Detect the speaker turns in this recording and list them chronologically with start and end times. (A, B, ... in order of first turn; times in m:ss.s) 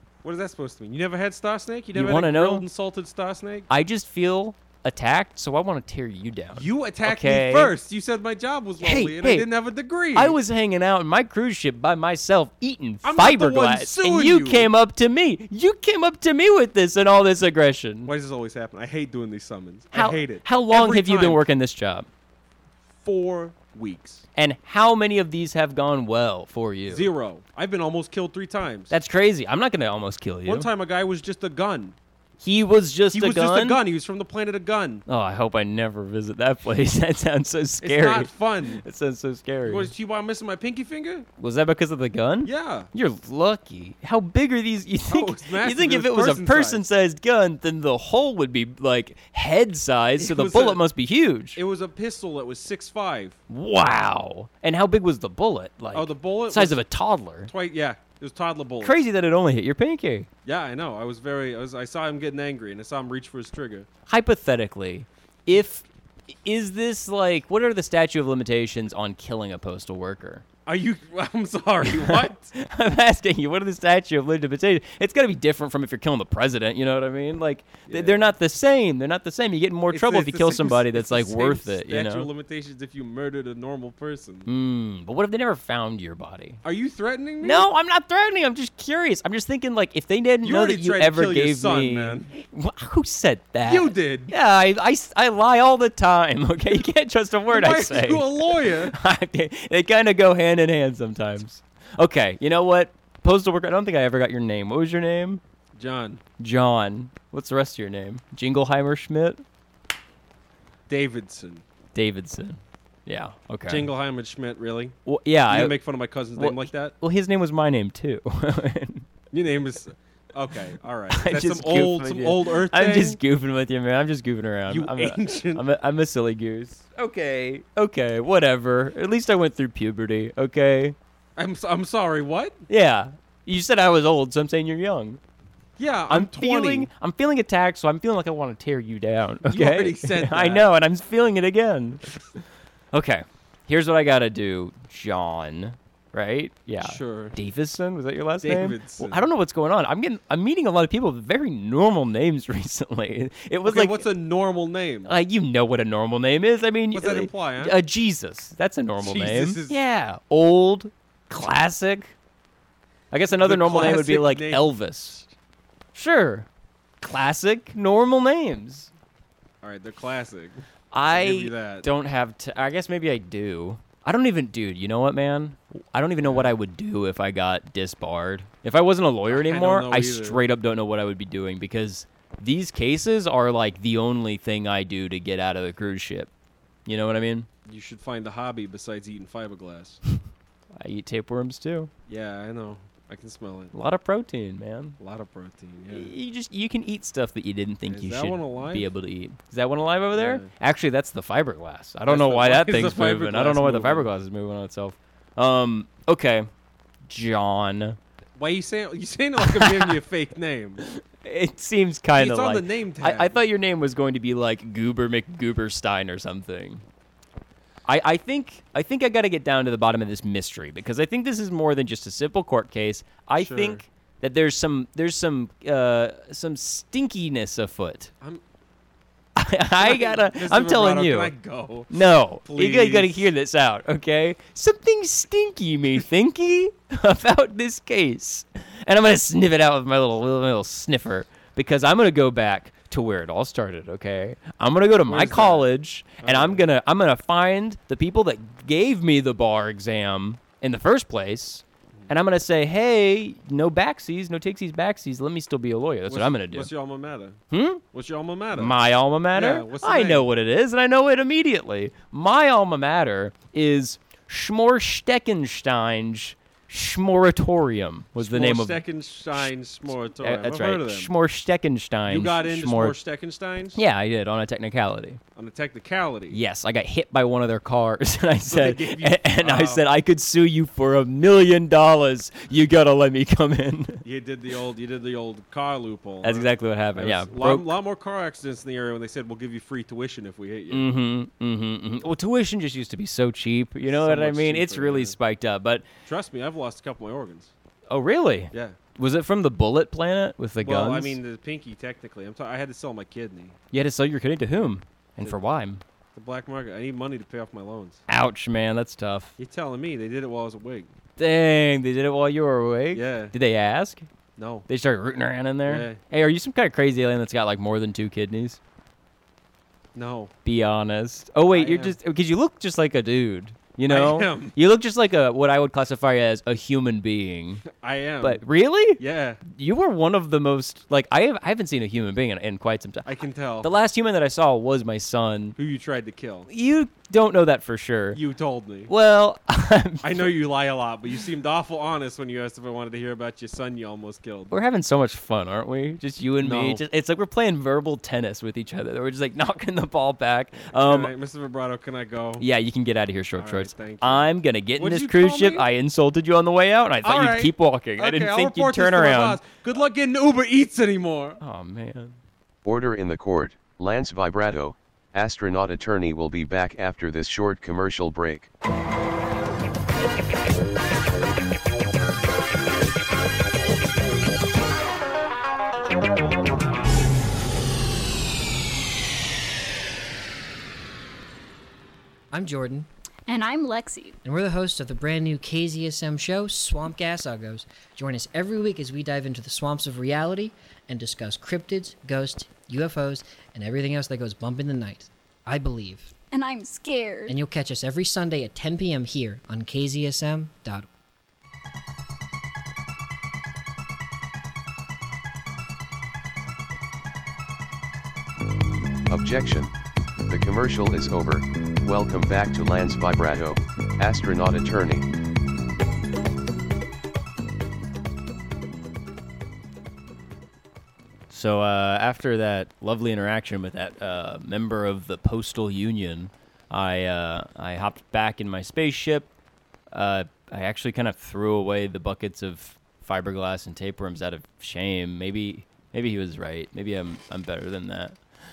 0:00.2-0:03.7 A
0:01.9-0:02.7 B
0:03.7-0:07.8 B
0:06.6-0:10.4 A
0:08.8-0:09.5 B
0:10.1-0:18.1 B
0:13.0-0:14.7 A
0:18.0-0:21.4 A
0:19.9-0:22.1 B
0:23.0-0:24.2 A
0:24.4-0:27.1 B
0:26.9-0:28.9 A
0:28.9-0:30.7 B
0:30.4-0:32.0 A
0:32.4-0:33.8 B
0:33.1-0:35.0 A
0:35.1-0:39.9 B
0:37.8-0:38.8 A
0:39.7-0:41.2 A
0:41.4-0:51.6 B
0:42.4-0:42.9 A
0:45.1-0:46.8 A
0:50.2-0:50.8 A
0:51.6-0:53.4 A
0:53.5-0:57.5 B
0:55.9-0:56.8 A
0:57.5-0:59.0 A
0:58.8-1:00.3 B
1:00.4-1:03.9 A
1:04.1-1:10.4 B
1:10.7-1:12.5 A
1:11.8-1:22.3 B
1:17.9-1:18.3 A
1:19.9-1:24.5 A
1:24.4-1:26.6 B
1:26.6-1:27.7 A
1:27.4-1:45.4 B
1:30.4-1:32.3 A
1:33.6-1:34.3 A
1:37.5-1:39.0 A
1:45.8-1:46.2 A
1:46.4-1:49.4 B
1:50.9-1:51.6 A
1:51.9-1:53.9 B
1:53.7-1:54.9 A
1:55.1-1:55.8 B
1:55.5-1:56.9 A
1:56.4-1:59.1 B
1:59.3-2:03.2 A
2:01.1-2:11.0 B
2:04.7-2:05.6 A
2:11.4-2:12.6 A
2:12.7-2:15.2 B
2:15.8-2:16.9 A
2:16.1-2:22.4 B
2:19.4-2:20.6 A
2:22.9-2:34.0 B
2:26.8-2:27.3 A
2:28.4-2:29.3 A
2:33.6-2:35.2 A
2:35.1-2:42.1 B
2:36.9-2:37.8 A
2:39.0-2:39.8 A
2:43.1-2:45.3 B
2:43.4-2:44.7 A
2:45.9-2:46.5 B
2:47.0-2:48.9 B
2:49.6-2:51.9 A
2:50.9-3:06.3 B
2:56.2-2:56.5 A
2:59.3-3:00.4 A
3:06.8-3:07.5 B
3:07.7-3:10.0 A
3:10.8-3:11.9 B
3:12.1-3:13.7 A
3:13.7-3:15.0 B
3:15.0-3:16.1 A
3:15.9-3:26.5 B
3:17.9-3:18.9 A
3:20.1-3:20.5 A
3:22.1-3:24.1 A
3:27.1-3:28.0 B
3:28.4-3:30.8 A
3:29.4-3:30.0 B
3:30.8-3:36.8 B
3:32.2-3:33.4 A
3:37.8-3:48.1 B
3:43.4-3:43.8 A
3:49.4-3:51.3 B
3:49.8-3:51.9 A
3:51.9-4:16.7 B
3:52.5-3:53.3 A
4:05.1-4:05.7 A
4:06.2-4:06.6 A
4:16.1-4:17.4 A
4:17.5-4:17.8 B
4:17.9-4:18.8 A
4:18.5-4:29.5 B
4:19.3-4:20.3 A
4:28.2-4:31.1 A
4:30.2-4:33.0 B
4:32.1-4:33.8 A
4:33.7-4:35.2 B
4:35.4-4:36.4 A
4:36.3-4:44.0 B
4:38.4-4:39.8 A
4:44.0-4:50.9 A
4:46.2-4:47.7 B
4:50.7-4:55.8 B
4:53.8-4:55.2 A
4:56.1-4:57.5 A
4:57.9-5:01.2 B
4:58.5-4:58.8 A
5:00.6-5:03.6 A
5:03.7-5:05.8 B
5:06.2-5:08.0 A
5:08.1-5:09.3 B
5:09.4-5:10.9 A
5:11.2-5:14.1 B
5:12.9-5:13.3 A
5:14.4-5:14.7 A
5:14.7-5:18.6 B
5:15.7-5:16.0 A
5:19.9-5:20.3 A
5:20.4-5:27.6 B
5:21.5-5:22.0 A
5:23.9-5:24.5 A
5:27.8-5:28.4 A
5:28.2-5:35.6 B
5:29.0-5:29.4 A
5:33.0-5:33.7 A
5:35.6-5:36.5 A
5:36.5-5:38.2 B
5:38.1-5:38.9 A
5:38.9-5:40.3 B
5:40.0-5:44.5 A
5:44.5-5:51.1 B
5:46.4-5:46.8 A
5:50.6-5:52.4 A
5:52.4-5:59.4 B
5:53.4-5:55.7 A
5:57.0-6:01.4 A
6:01.4-6:02.2 B
6:02.6-6:08.5 C
6:22.3-6:22.9 D
6:23.3-6:24.2 E
6:24.2-6:36.1 D
6:36.3-6:37.4 E
6:37.3-6:40.9 D
6:49.1-6:49.7 C
6:50.3-6:55.1 C
7:01.3-7:09.3 B
7:09.9-7:18.2 B